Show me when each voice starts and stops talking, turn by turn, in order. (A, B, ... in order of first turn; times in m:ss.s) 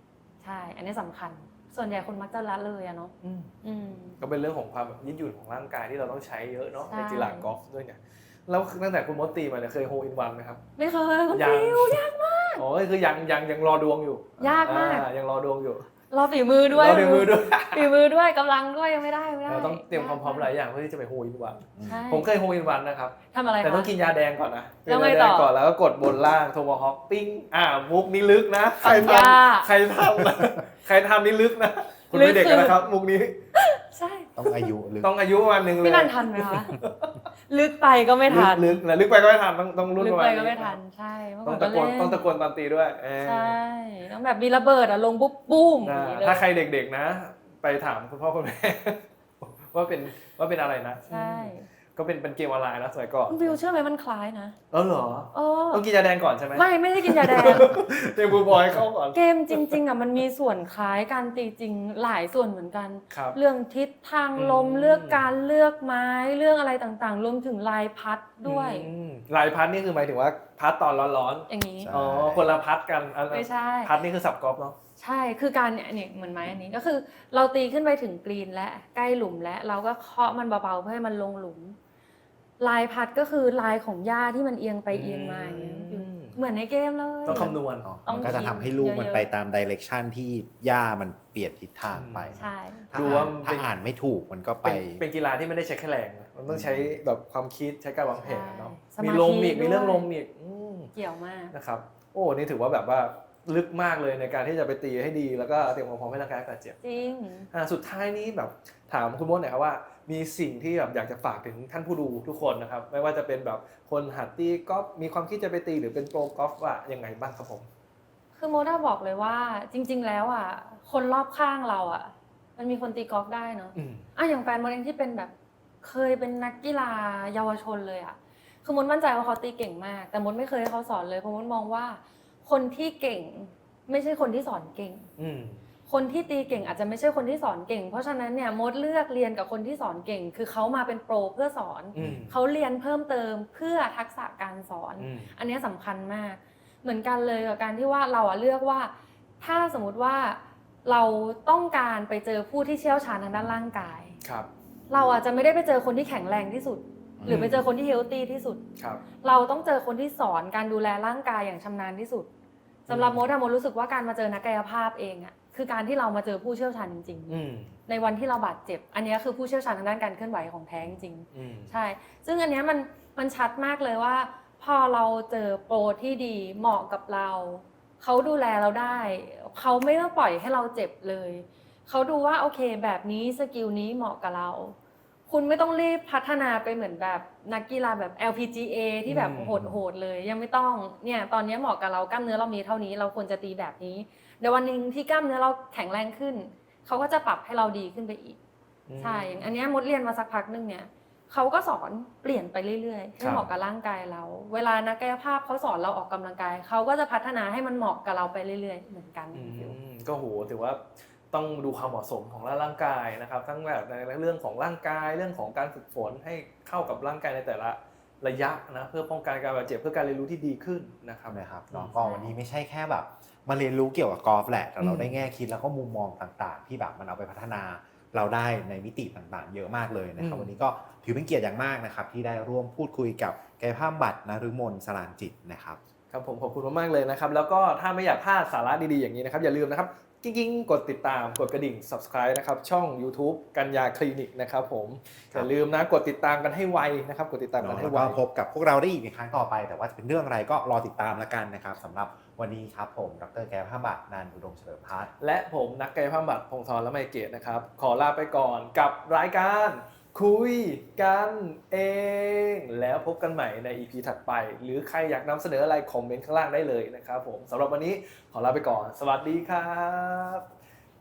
0:00.4-0:03.1 A
0:03.2-0:03.5 B
0:03.6-0:04.2 A
0:04.2-0:10.6 B
0:06.9-0:07.5 A
0:10.8-0:12.6 A
0:11.3-0:12.0 B
0:12.6-0:15.9 B
0:14.4-0:14.7 C
0:14.4-0:15.1 A
0:16.1-0:20.5 A
0:16.7-0:17.9 B
0:19.5-0:33.4 B
0:21.8-0:22.1 C
0:21.8-0:22.3 A
0:23.3-0:23.9 A
0:24.9-0:25.5 A
0:28.8-0:29.7 A
0:30.2-0:30.6 C
0:32.1-0:32.8 A
0:33.6-0:34.7 A
0:34.4-0:35.1 C
0:35.0-0:37.3 B
0:35.8-0:36.8 A
0:37.5-0:38.8 A
0:38.3-0:40.8 B
0:40.0-0:42.2 A
0:41.4-0:43.6 B
0:43.2-0:46.4 A
0:45.8-0:53.6 B
0:51.1-0:51.7 A
0:53.3-0:54.6 A
0:54.7-0:59.8 B
0:55.3-0:55.8 A
0:56.6-0:57.8 A
0:59.2-1:08.9 A
1:03.1-1:03.4 B
1:04.4-1:05.2 B
1:08.4-1:14.8 B
1:11.5-1:11.9 A
1:11.8-1:12.5 C
1:13.3-1:13.9 A
1:15.0-1:21.8 A
1:22.6-1:29.3 A
1:24.9-1:26.4 B
1:27.3-1:27.9 B
1:27.3-1:35.0 C
1:32.0-1:32.4 B
1:32.4-1:33.3 A
1:32.9-1:33.7 B
1:34.6-1:40.9 B
1:36.5-1:37.0 C
1:38.1-1:40.1 A
1:41.0-1:41.5 A
1:41.5-1:46.8 B
1:46.8-1:47.5 A
1:47.5-1:57.7 B
1:58.4-2:15.1 A
2:03.8-2:04.1 B
2:15.2-2:15.6 B
2:15.9-2:34.2 A
2:22.0-2:22.3 B
2:22.0-2:22.3 C
2:25.0-2:25.3 B
2:34.2-2:34.5 B
2:34.9-2:38.6 A
2:37.2-2:37.6 C
2:37.3-2:37.7 B
2:38.8-2:39.0 B
2:39.2-2:42.3 A
2:42.9-3:04.8 A
2:42.9-2:43.2 B
2:47.3-2:47.7 B
2:51.3-2:51.7 B
3:05.3-3:18.4 A
3:09.1-3:09.7 B
3:18.9-3:19.5 B
3:19.0-3:29.8 A
3:23.2-3:23.5 B
3:29.3-3:42.0 B
3:41.3-3:55.8 C
3:42.0-3:42.3 A
3:44.8-3:45.1 B
3:50.2-3:50.6 B
3:56.1-4:08.2 B
4:07.6-4:15.1 C
4:15.2-4:30.5 B